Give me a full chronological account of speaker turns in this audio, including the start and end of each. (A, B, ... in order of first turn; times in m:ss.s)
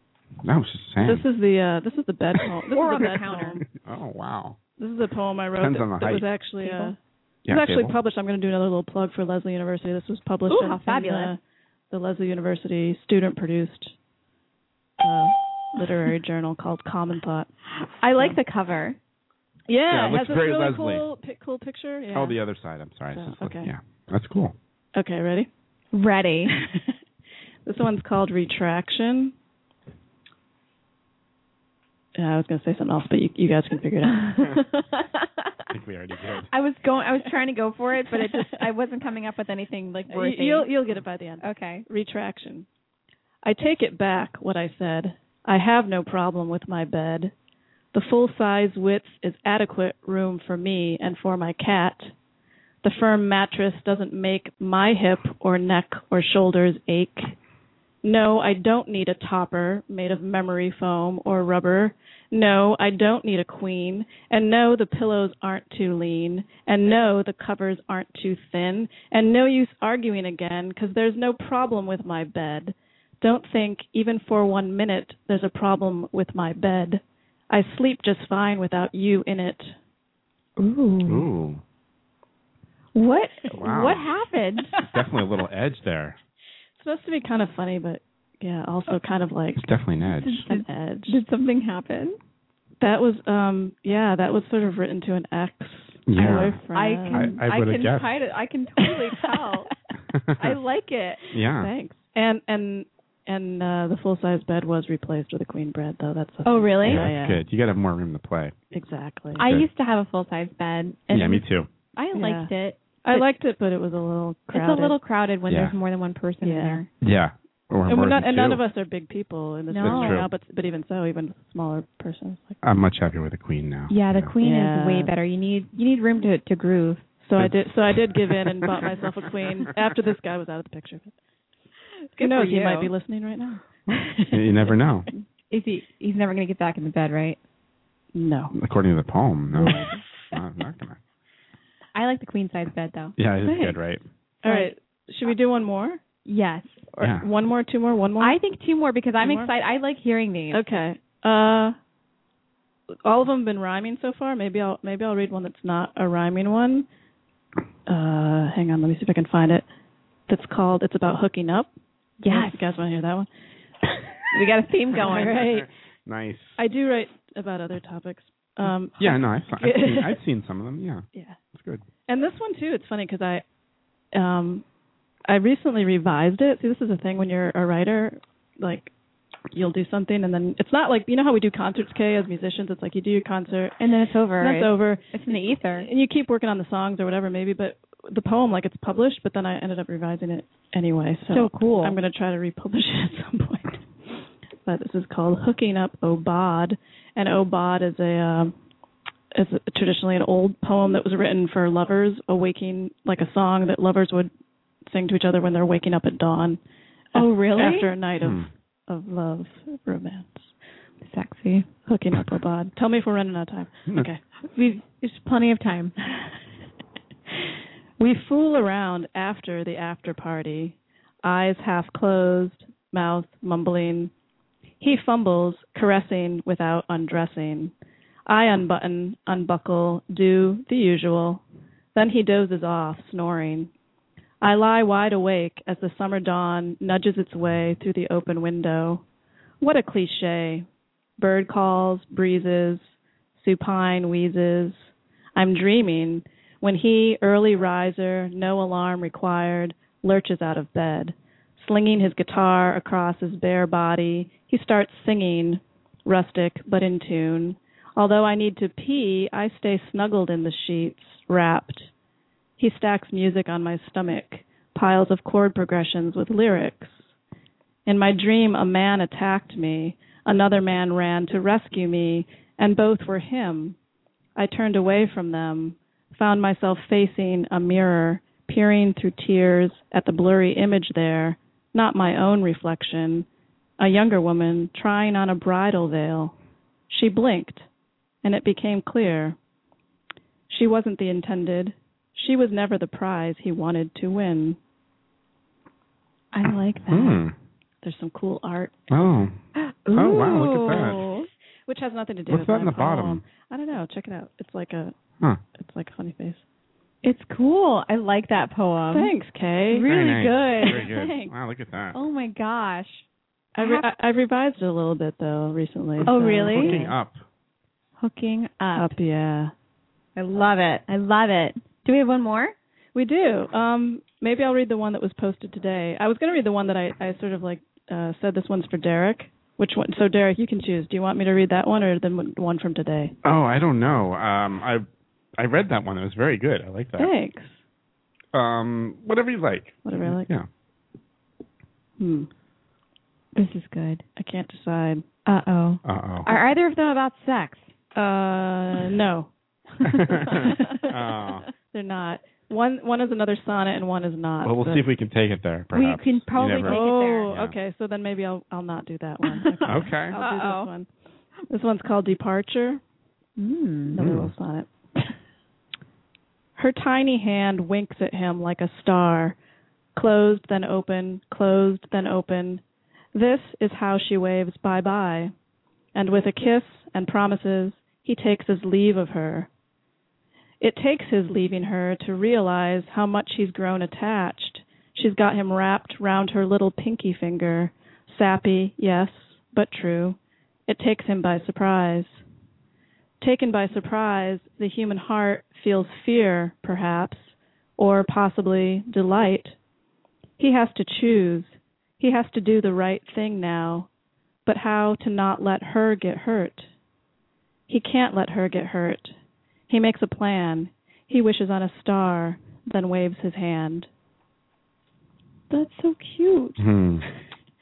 0:00.4-0:01.2 A
0:01.0-0:03.6 B
0:02.7-0:03.6 C
0:03.7-0:04.6 A
0:04.8-0:07.0 B
0:05.6-0:06.2 A
0:06.6-0:06.9 C
0:07.4-0:07.9 A
0:07.5-0:11.4 B
0:10.5-0:11.3 C
0:11.9-0:13.9 B
0:15.0-0:17.5 B
0:18.0-0:19.0 C
0:19.7-0:22.4 B
0:19.9-0:21.0 A
0:22.1-0:24.6 A
0:23.1-0:23.7 B
0:24.9-0:25.5 B
0:25.9-0:26.5 C
0:26.6-0:26.9 B
0:27.6-0:29.3 B
0:32.2-0:34.4 B
0:34.1-0:35.3 C
0:35.7-0:36.5 A
0:36.5-0:40.7 C
0:38.2-0:38.5 B
0:40.1-0:42.6 B
0:41.4-0:41.8 C
0:43.4-0:47.3 B
0:47.9-0:52.1 B
0:52.8-0:57.3 B
0:58.0-1:19.8 B
1:20.6-1:21.3 C
1:21.0-1:21.6 A
1:22.9-1:24.7 C
1:23.5-1:24.1 A
1:24.9-1:26.2 A
1:26.8-1:29.6 B
1:29.6-1:30.4 A
1:30.2-1:32.2 C
1:30.4-1:31.2 B
1:32.8-1:37.4 B
1:36.1-1:36.6 A
1:36.7-1:39.7 C
1:37.1-1:38.1 A
1:38.8-1:39.2 B
1:40.1-1:40.6 A
1:40.4-1:41.2 C
1:41.3-1:41.7 A
1:41.6-1:47.4 B
1:46.4-1:47.1 C
1:46.8-1:48.6 A
1:48.7-1:49.4 B
1:49.3-1:51.4 C
1:51.1-1:51.7 A
1:52.0-1:53.3 C
1:52.1-1:52.5 B
1:53.0-1:55.0 B
1:54.5-1:56.9 C
1:55.5-1:55.7 A
1:56.4-1:56.8 B
1:57.0-1:58.6 A
1:57.9-2:02.6 B
1:59.7-2:00.2 C
1:59.8-2:00.3 A
2:02.6-2:04.3 A
2:03.9-2:07.0 C
2:04.4-2:05.1 B
2:07.2-2:11.1 B
2:07.4-2:08.9 A
2:12.2-2:12.9 C
2:12.2-2:13.6 B
2:13.9-2:15.1 A
2:15.1-2:17.4 C
2:18.1-2:18.5 B
2:18.5-2:21.0 A
2:19.6-2:20.0 B
2:21.9-2:23.7 C
2:23.2-2:24.0 A
2:24.4-2:26.0 B
2:24.4-2:24.7 C
2:26.2-2:26.9 C
2:26.9-2:28.4 B
2:27.0-2:27.3 A
2:28.2-2:30.6 C
2:29.2-2:29.5 B
2:30.5-2:31.8 B
2:33.0-2:36.9 B
2:37.9-2:39.6 B
2:40.3-2:41.7 B
2:42.2-2:42.6 C
2:42.3-2:43.3 B
2:44.3-2:45.6 C
2:45.0-2:45.7 B
2:45.3-2:46.6 A
2:46.6-2:50.1 B
2:49.0-2:51.8 A
2:51.1-2:51.4 B
2:52.1-2:53.4 B
2:54.1-2:54.6 B
2:55.3-2:58.9 B
2:59.5-3:03.8 B
3:03.8-3:05.9 C
3:04.4-3:18.6 B
3:11.3-3:12.0 C
3:19.3-3:24.3 B
3:24.9-3:26.6 B
3:27.1-3:27.9 C
3:27.1-3:30.5 B
3:28.2-3:28.5 A
3:31.0-3:31.6 C
3:31.9-3:34.2 B
3:34.5-3:35.9 C
3:38.0-3:44.1 B
3:44.8-3:47.7 B
3:48.3-3:51.4 B
3:51.9-3:53.7 B
3:54.4-3:59.0 B
3:59.6-4:00.6 B
4:01.2-4:21.9 B
4:22.6-4:27.1 B
4:27.9-4:33.8 B
4:34.4-4:43.3 B
4:43.8-4:46.3 B
4:46.9-4:47.7 B
4:48.2-4:49.4 B
4:50.5-4:54.6 B
4:56.3-4:57.2 C
4:56.4-4:57.3 A
4:57.8-4:58.9 B
4:58.9-4:59.3 A
4:59.6-5:01.3 C
4:59.9-5:01.0 A
5:01.7-5:04.9 B
5:02.3-5:03.2 A
5:05.6-5:06.4 B
5:07.0-5:09.1 C
5:08.9-5:09.9 B
5:09.7-5:11.3 C
5:09.9-5:12.0 A
5:11.9-5:13.0 C
5:13.6-5:16.9 B
5:13.6-5:13.9 C
5:16.0-5:16.9 C
5:16.5-5:17.2 A
5:18.0-5:18.9 C
5:18.7-5:19.5 B
5:20.2-5:22.6 C
5:22.9-5:33.1 B
5:33.2-5:34.9 A
5:35.4-5:37.1 A
5:37.0-5:37.6 B
5:38.3-5:40.4 A
5:39.8-5:40.3 B
5:42.0-5:42.3 B
5:43.3-5:44.0 C
5:44.2-5:45.0 B
5:45.2-5:47.7 C
5:45.8-5:46.3 A
5:47.9-5:50.9 B
5:49.9-5:51.4 A
5:50.3-5:50.6 C
5:51.6-5:54.8 B
5:54.4-5:57.6 A
5:55.7-5:57.3 C
5:56.6-6:00.9 B
5:59.2-6:00.7 C
5:59.6-6:00.2 A
6:01.5-6:02.8 B
6:03.4-6:04.0 C
6:03.9-6:04.7 B
6:04.0-6:04.3 A
6:06.6-6:09.4 B
6:09.9-6:12.6 B
6:13.1-6:15.3 B
6:15.9-6:19.5 B
6:20.6-6:32.2 B
6:33.2-6:39.6 B
6:40.4-6:43.9 B
6:44.4-6:46.7 B
6:47.7-6:49.2 B
6:49.7-6:53.9 B
6:55.5-6:56.6 C
6:56.6-6:57.0 A